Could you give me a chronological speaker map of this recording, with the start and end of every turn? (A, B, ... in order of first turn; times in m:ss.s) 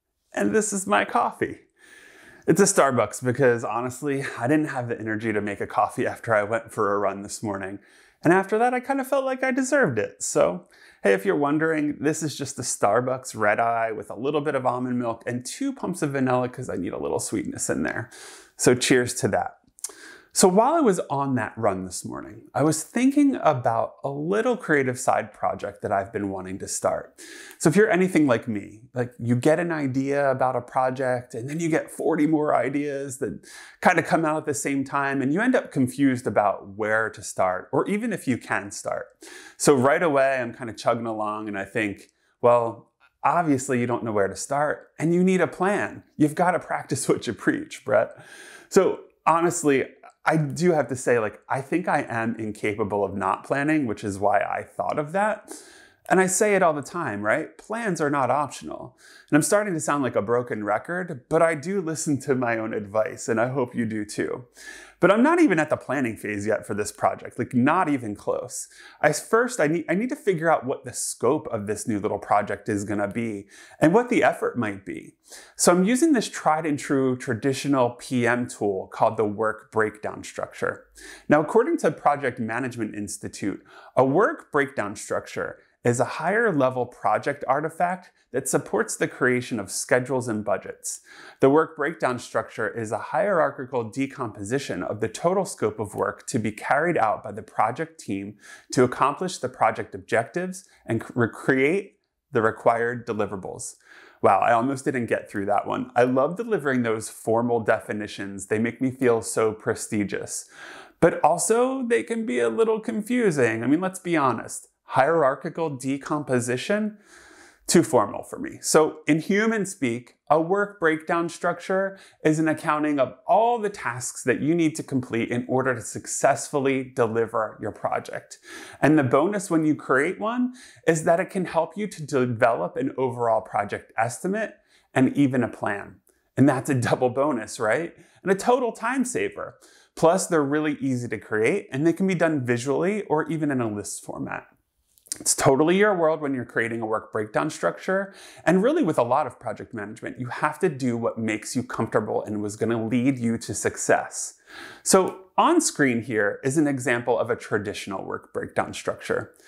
0:00.3-0:01.6 A
0:02.5-0:19.6 A
0:20.3-0:55.6 A
0:56.1-1:04.5 A
1:05.0-1:50.5 A
1:51.0-1:57.0 A
1:57.7-2:24.5 A
2:25.2-2:39.3 A